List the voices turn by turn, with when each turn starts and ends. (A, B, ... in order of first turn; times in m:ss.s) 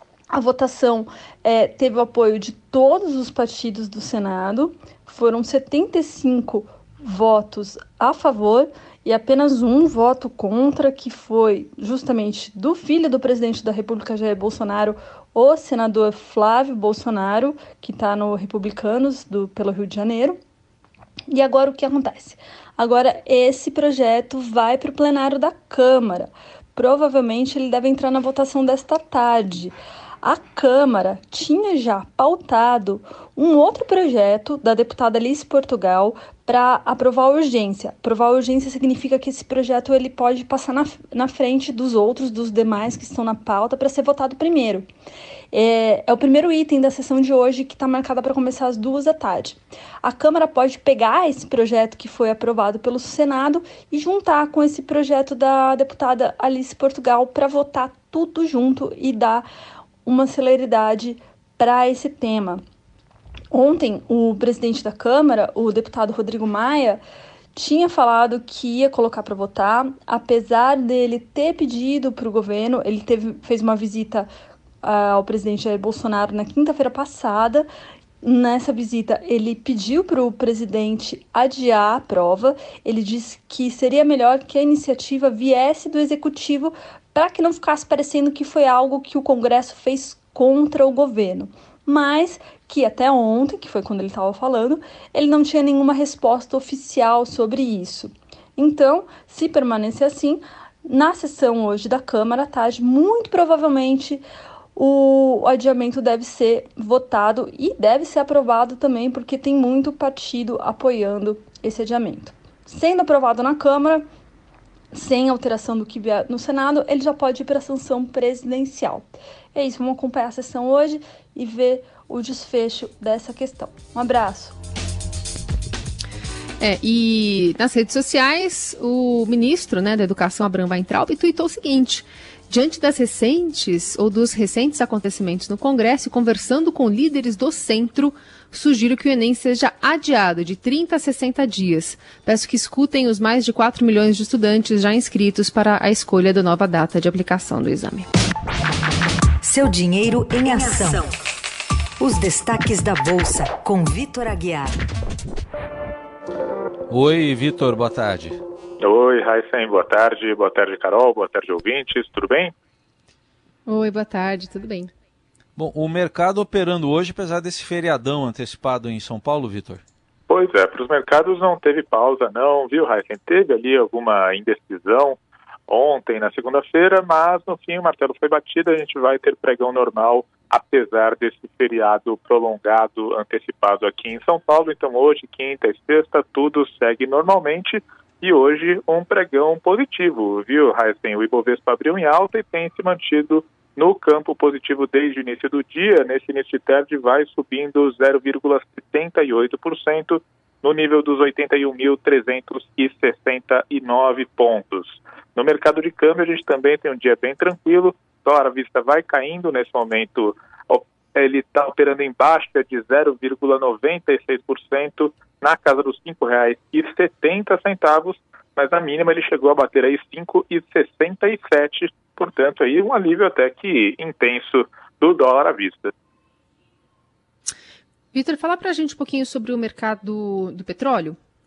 0:00.3-0:20.4 A
0:21.3-0:44.8 A
0:45.5-0:59.4 A
1:00.0-1:02.6 A
1:03.5-1:07.0 A
1:07.5-1:14.3 A
1:14.8-1:17.7 A
1:18.2-1:44.2 A
1:44.8-1:54.0 A
1:54.9-2:04.6 A
2:06.6-2:28.1 B
2:29.4-2:31.1 C
2:32.0-2:34.7 C
2:36.9-2:38.4 D
2:38.8-2:42.5 E
2:43.7-2:44.9 B
2:45.6-2:49.8 D
2:50.3-3:45.9 E
3:48.1-3:51.2 B